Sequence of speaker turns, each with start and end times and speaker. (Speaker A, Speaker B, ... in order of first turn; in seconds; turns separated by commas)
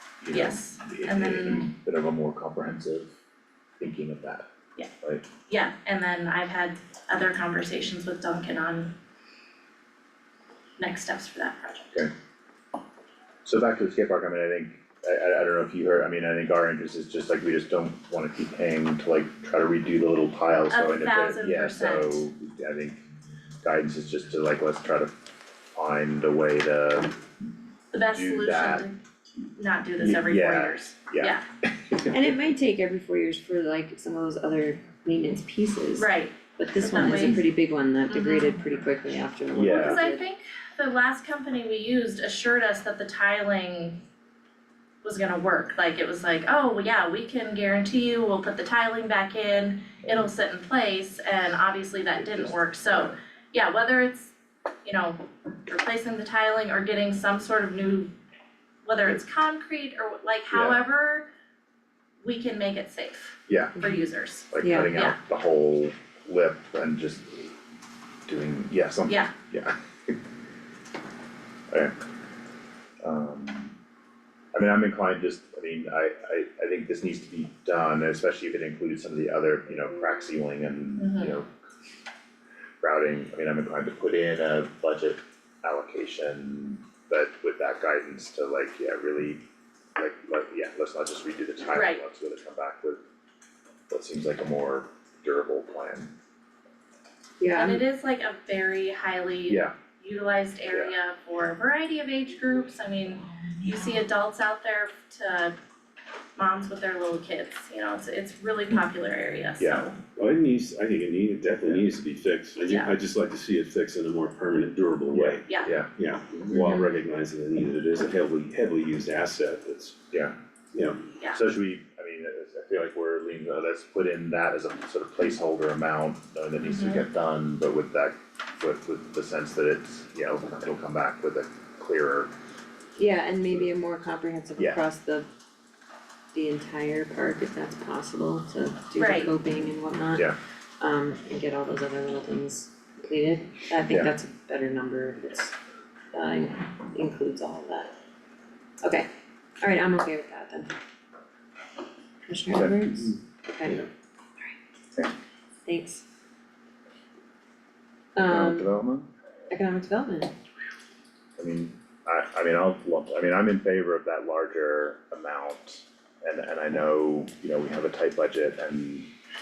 Speaker A: 0.2-3.1, Speaker B: 0.3-1.7, Speaker A: 3.8-4.5, Speaker A: 5.0-5.3, Speaker B: 5.5-8.9, Speaker B: 10.8-12.0, Speaker A: 13.4-23.0, Speaker B: 20.7-22.2, Speaker A: 23.6-25.1, Speaker A: 25.8-27.1, Speaker B: 27.9-29.0, Speaker A: 28.1-28.9, Speaker B: 29.6-31.5, Speaker A: 30.0-32.2, Speaker C: 32.1-40.2, Speaker B: 36.0-37.5, Speaker B: 38.1-38.5, Speaker A: 39.5-40.0, Speaker B: 39.6-44.0, Speaker B: 45.0-54.3, Speaker A: 52.1-53.1, Speaker B: 54.8-58.1, Speaker B: 58.8-61.3, Speaker A: 60.5-60.8, Speaker B: 62.2-65.2, Speaker A: 63.5-63.8, Speaker A: 64.5-67.4, Speaker C: 64.6-64.9, Speaker A: 68.3-70.2, Speaker B: 69.1-69.3, Speaker A: 73.0-73.8, Speaker A: 74.5-81.5, Speaker B: 81.0-81.4, Speaker A: 82.8-89.4, Speaker A: 90.0-93.0, Speaker B: 91.7-92.0, Speaker A: 93.9-96.1, Speaker C: 97.4-97.8, Speaker B: 97.5-105.5, Speaker A: 99.5-99.7, Speaker B: 106.4-110.0, Speaker A: 109.6-109.9, Speaker D: 110.2-120.0, Speaker B: 112.6-112.9, Speaker A: 115.1-115.9, Speaker B: 115.5-115.7, Speaker D: 120.7-121.0, Speaker A: 121.3-132.3, Speaker B: 126.6-127.1, Speaker C: 133.0-135.2, Speaker C: 136.3-145.5, Speaker B: 139.0-139.3, Speaker A: 143.9-144.1, Speaker C: 146.1-147.9, Speaker C: 149.6-150.7, Speaker C: 152.3-153.8, Speaker A: 152.5-153.2, Speaker C: 155.7-156.0, Speaker C: 158.2-158.7, Speaker A: 158.2-159.1, Speaker C: 159.5-160.3, Speaker A: 161.4-169.1